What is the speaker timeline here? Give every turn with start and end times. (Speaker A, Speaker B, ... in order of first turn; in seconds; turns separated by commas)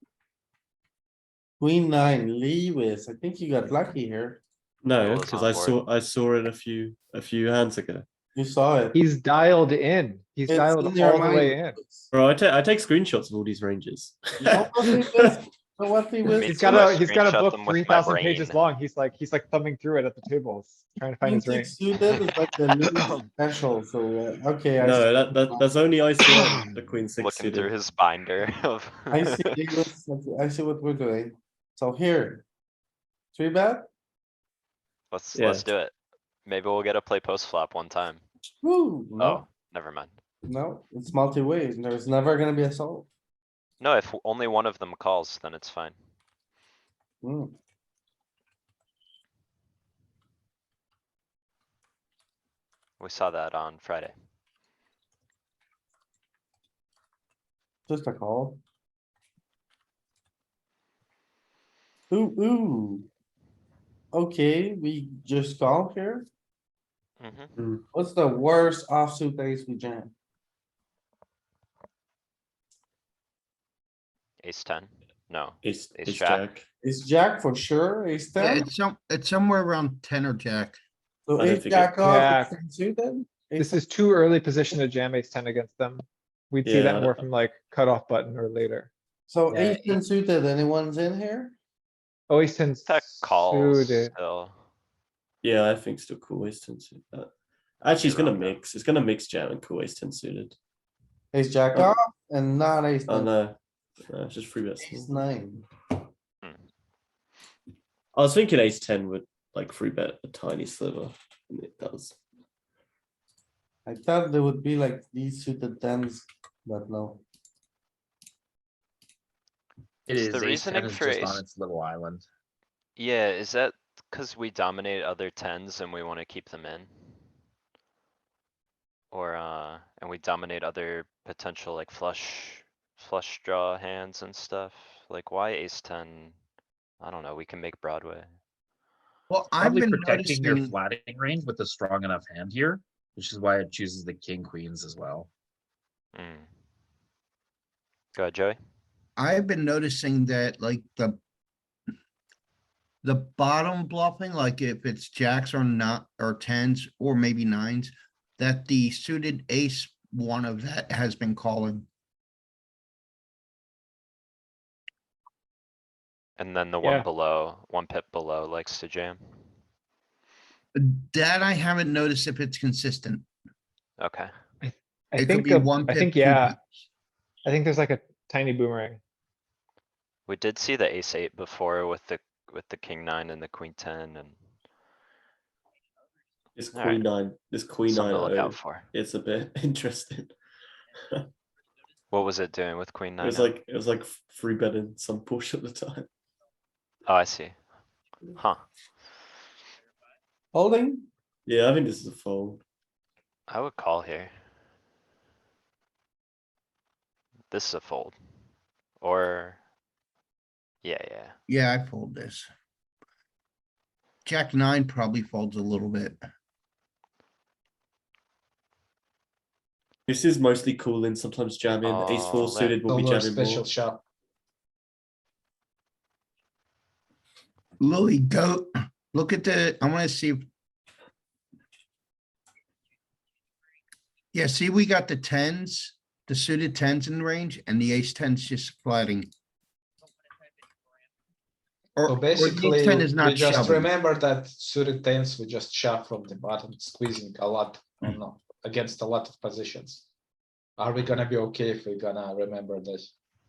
Speaker A: 1.6-4.4, Speaker B: 4.8-8.1, Speaker C: 5.0-5.8, Speaker A: 8.3-9.0, Speaker D: 8.9-11.8, Speaker A: 10.5-12.0, Speaker B: 12.1-15.4, Speaker A: 14.4-16.4, Speaker C: 16.3-18.6, Speaker D: 16.4-21.7, Speaker A: 21.2-25.6, Speaker C: 22.1-23.3, Speaker B: 24.8-27.7, Speaker C: 27.2-29.9, Speaker A: 29.1-32.4, Speaker A: 33.3-33.9, Speaker C: 35.1-35.9, Speaker B: 35.3-35.7, Speaker C: 36.5-38.2, Speaker A: 38.6-39.4, Speaker C: 39.2-40.1, Speaker A: 40.4-43.1, Speaker C: 43.8-46.0, Speaker A: 47.2-47.5, Speaker C: 53.0-54.1, Speaker A: 57.9-58.6, Speaker A: 62.1-63.1, Speaker A: 64.1-66.3, Speaker C: 67.2-67.5, Speaker B: 67.6-67.8, Speaker A: 67.9-70.1, Speaker C: 74.4-76.4, Speaker B: 75.6-76.6, Speaker A: 76.8-78.7, Speaker E: 78.4-80.8, Speaker A: 81.3-83.8, Speaker B: 81.3-82.0, Speaker D: 82.0-82.5, Speaker D: 83.6-88.9, Speaker B: 86.6-87.2, Speaker A: 89.3-91.5, Speaker D: 92.3-94.1, Speaker C: 92.8-94.5, Speaker B: 95.4-97.3, Speaker B: 97.8-100.5, Speaker C: 98.0-98.5, Speaker A: 101.3-103.3, Speaker B: 103.1-105.1, Speaker A: 104.8-105.6, Speaker B: 108.1-112.2, Speaker A: 113.8-117.2, Speaker F: 120.1-122.2, Speaker C: 120.2-121.4, Speaker C: 123.0-126.9, Speaker C: 129.1-136.3, Speaker C: 137.0-138.3, Speaker E: 139.3-140.7, Speaker F: 139.6-145.3, Speaker C: 146.1-146.5, Speaker C: 148.1-148.6, Speaker E: 149.2-151.2, Speaker E: 153.0-161.8, Speaker C: 166.4-169.2, Speaker E: 170.7-173.2, Speaker C: 174.0-174.3, Speaker D: 174.6-176.6, Speaker E: 175.2-176.6, Speaker D: 177.4-179.0, Speaker C: 180.3-184.3, Speaker B: 186.6-190.3, Speaker C: 186.7-187.0, Speaker C: 187.9-188.9, Speaker C: 192.1-193.5, Speaker B: 193.2-196.1, Speaker C: 197.1-197.6, Speaker C: 198.3-198.6, Speaker A: 200.5-201.1, Speaker B: 201.4-202.6, Speaker C: 203.5-204.3, Speaker C: 207.5-208.1, Speaker C: 209.0-209.6, Speaker C: 210.8-211.3, Speaker E: 211.5-212.5, Speaker E: 214.2-216.2, Speaker B: 220.1-223.7, Speaker C: 221.8-222.8, Speaker G: 222.8-224.0, Speaker E: 227.8-230.4, Speaker E: 234.3-239.3, Speaker E: 242.0-243.9, Speaker G: 242.1-250.0, Speaker G: 250.8-253.1